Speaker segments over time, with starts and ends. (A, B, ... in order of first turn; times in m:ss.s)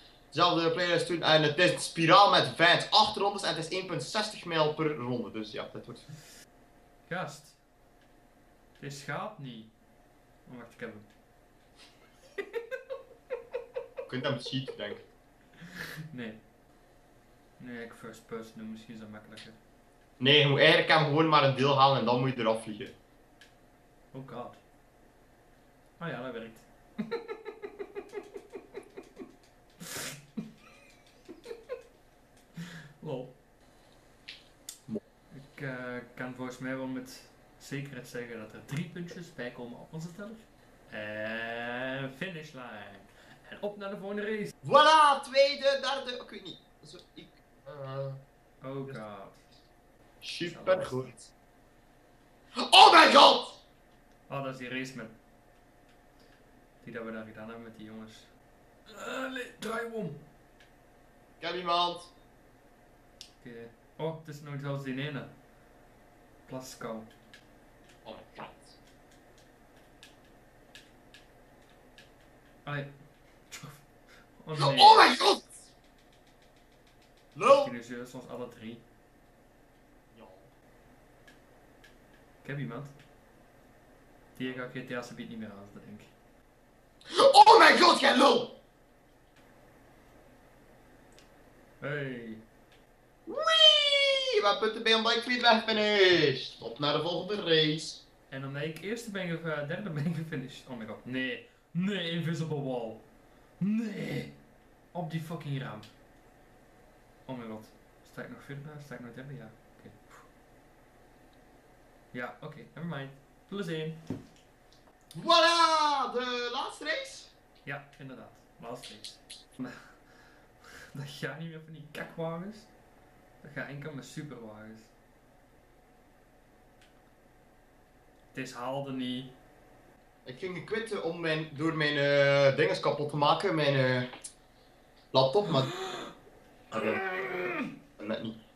0:00.3-0:06.1 A
0:07.1-0:07.6 B
0:08.8-0:09.7 B
0:10.5-0:11.1 B
0:14.1-0:15.1 A
0:16.1-0:16.4 B
0:17.6-0:19.6 B
0:20.2-0:23.0 A
0:24.1-0:24.6 B
0:26.0-0:27.5 B
0:29.8-0:30.2 B
0:32.6-0:33.4 B
0:35.3-0:44.5 B
0:44.6-0:48.2 A
0:48.6-0:49.4 B
0:50.2-0:51.3 A
0:50.4-0:51.1 B
0:52.6-0:53.6 A
0:54.3-0:55.2 B
0:56.8-0:58.3 B
0:58.9-1:00.2 B
1:01.4-1:02.1 A
1:03.4-1:05.3 B
1:06.5-1:07.1 B
1:08.0-1:08.8 A
1:12.6-1:12.9 B
1:13.5-1:13.8 B
1:14.4-1:15.2 B
1:14.6-1:15.6 A
1:17.4-1:17.7 A
1:17.4-1:18.8 B
1:20.1-1:20.5 A
1:22.4-1:23.0 B
1:24.4-1:26.1 B
1:24.4-1:24.7 A
1:27.1-1:28.6 A
1:31.8-1:32.4 B
1:33.3-1:38.0 A
1:38.3-1:43.0 B
1:43.6-1:44.4 B
1:44.9-1:45.9 B
1:47.3-1:50.3 B
1:52.1-1:54.0 B
1:55.1-1:57.3 A
1:57.6-2:00.0 B
2:00.9-2:02.7 B
2:03.4-2:04.9 B
2:08.3-2:09.4 B
2:10.2-2:14.1 A
2:15.1-2:15.7 A
2:15.8-2:16.0 B
2:16.7-2:17.0 A
2:16.7-2:17.7 B
2:18.0-2:18.4 A